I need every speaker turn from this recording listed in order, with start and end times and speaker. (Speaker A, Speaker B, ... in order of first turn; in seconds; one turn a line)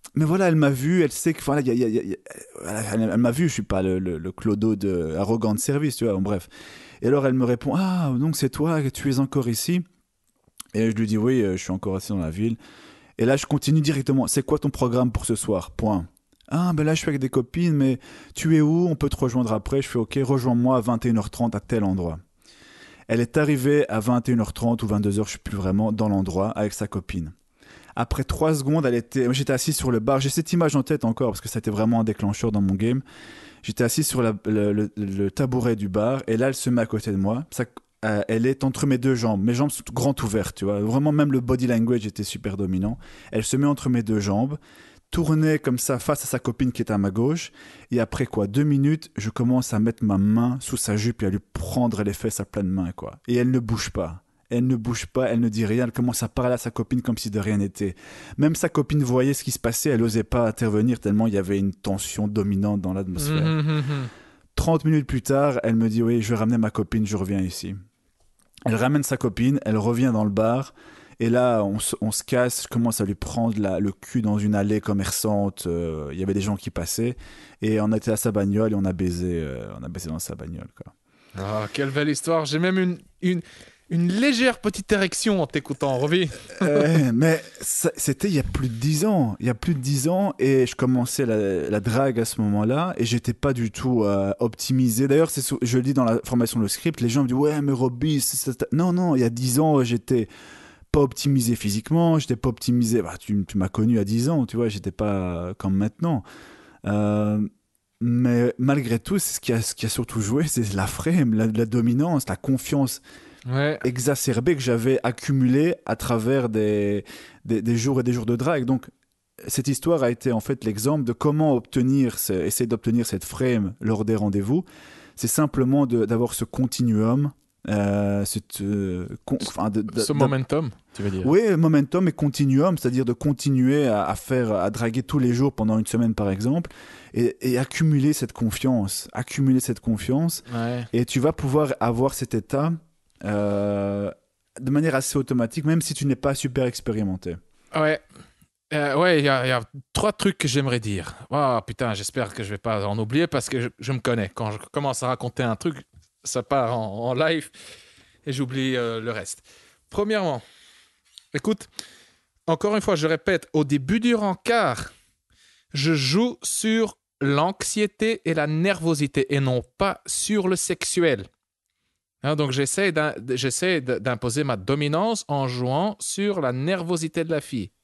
Speaker A: 0.1-6.5
Speaker A: 7.0-9.8
Speaker A: 10.7-12.6
Speaker A: 13.2-22.2
Speaker A: 23.1-27.3
Speaker A: 28.0-33.0
Speaker A: 33.6-44.6
Speaker A: 45.1-63.6
Speaker B: 63.2-64.1
Speaker A: 64.5-67.8
Speaker A: 68.7-80.9
Speaker B: 81.3-87.0
Speaker A: 86.5-100.3
Speaker A: 100.9-106.2
Speaker A: 106.8-107.5
Speaker A: 108.0-113.0
Speaker B: 113.5-113.8
Speaker A: 113.8-118.9
Speaker A: 119.4-124.7
Speaker A: 125.2-130.3
Speaker B: 129.9-131.3
Speaker A: 131.2-147.4
Speaker B: 140.5-140.9
Speaker B: 147.7-148.0
Speaker B: 148.7-157.5
Speaker B: 158.2-160.4
Speaker B: 161.3-161.7
Speaker B: 162.5-164.9
Speaker B: 165.7-171.3
Speaker B: 172.2-177.7